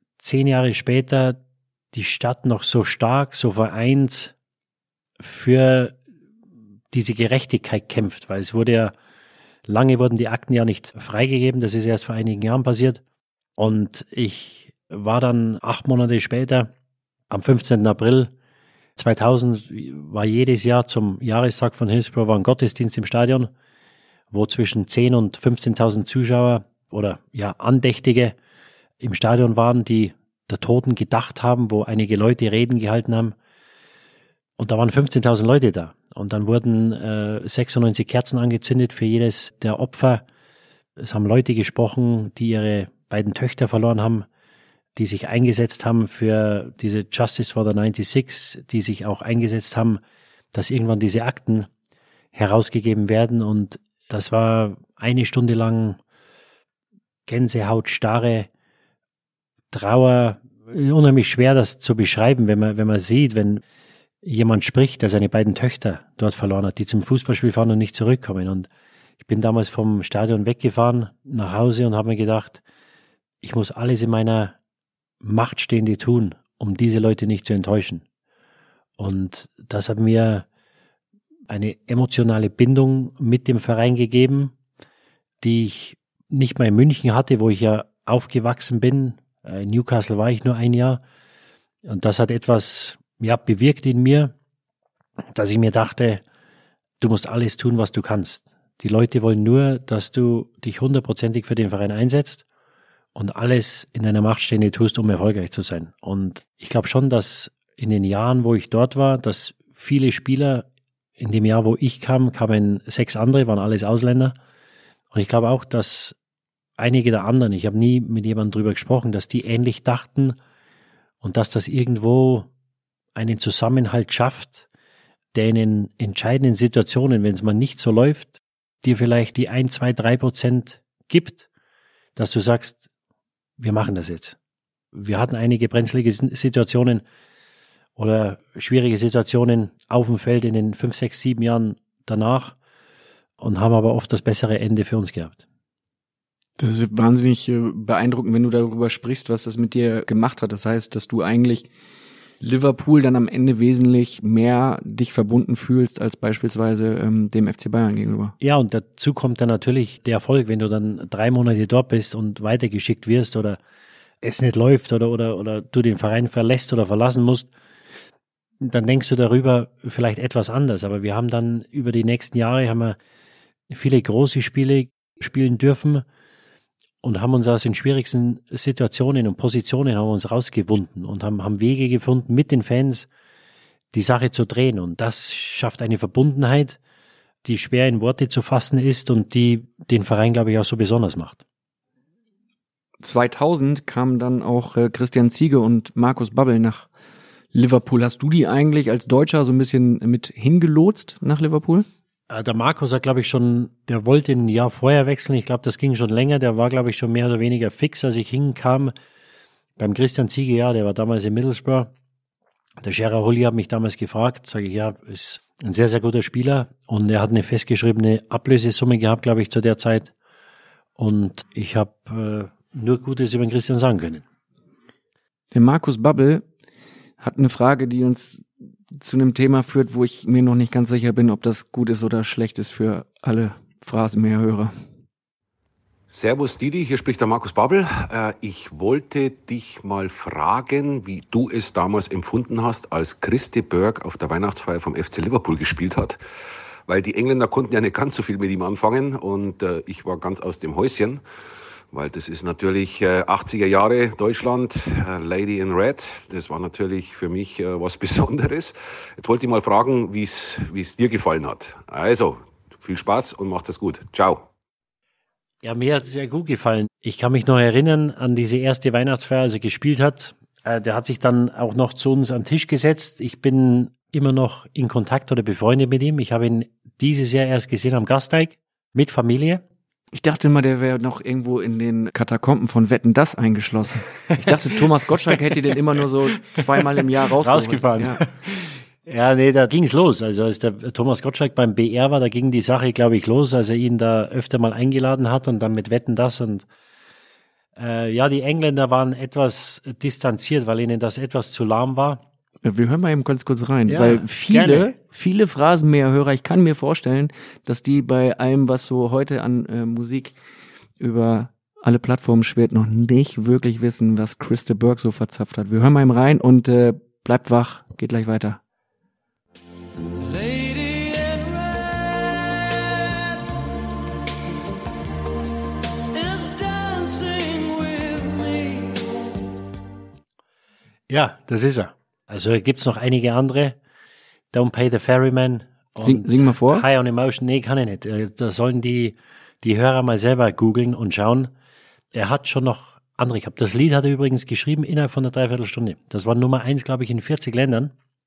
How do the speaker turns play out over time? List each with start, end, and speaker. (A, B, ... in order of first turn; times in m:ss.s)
0:00.2-0:01.4 A
0:01.9-0:04.3 A
0:05.2-0:06.0 A
0:06.9-0:08.9 A
0:09.7-0:13.0 A
0:13.6-0:16.7 A
0:17.3-0:18.3 A
0:19.0-0:23.5 A
0:24.3-0:28.4 A
0:29.0-0:33.4 A
0:34.6-0:40.2 A
0:41.0-0:44.3 A
0:45.0-0:50.0 A
0:50.5-0:51.7 A
0:52.3-0:56.0 A
0:57.3-0:58.5 A
0:59.7-1:03.6 A
1:04.2-1:08.7 A
1:09.2-1:12.6 A
1:13.4-1:14.6 A
1:15.2-1:18.0 A
1:19.0-1:20.4 A
1:21.5-1:24.5 A
1:25.4-1:31.0 A
1:31.8-1:34.3 A
1:35.4-1:36.2 A
1:37.0-1:42.4 A
1:43.2-1:50.7 A
1:51.2-1:54.4 A
1:55.1-1:56.2 A
1:56.8-2:00.4 A
2:01.2-2:02.5 A
2:03.2-2:04.6 A
2:05.3-2:11.4 A
2:12.2-2:12.8 A
2:13.6-2:14.4 A
2:14.9-2:17.0 A
2:18.0-2:22.6 A
2:23.4-2:25.4 A
2:26.6-2:31.7 B
2:32.4-2:38.4 B
2:38.4-2:43.6 A
2:44.2-2:47.5 A
2:48.6-2:53.0 A
2:53.7-2:56.0 A
2:57.0-3:03.1 A
3:03.9-3:06.8 A
3:07.4-3:11.4 A
3:13.0-3:16.9 B
3:17.5-3:21.9 B
3:22.3-3:28.9 A
3:29.8-3:31.9 A
3:32.8-3:40.1 A
3:41.0-3:44.2 A
3:45.5-3:46.4 B
3:47.2-3:54.7 B
3:56.1-4:06.2 C
4:06.9-4:11.2 C
4:11.9-4:24.5 C
4:25.6-4:39.6 A
4:40.1-4:48.2 B
4:47.4-4:56.7 A
4:57.8-5:02.2 A
5:02.6-5:10.4 B
5:03.9-5:05.0 A
5:11.0-5:18.6 B
5:26.4-5:28.7 B
5:31.1-5:33.8 A
5:34.5-5:41.5 A
5:36.0-5:36.9 B
5:42.1-5:47.9 A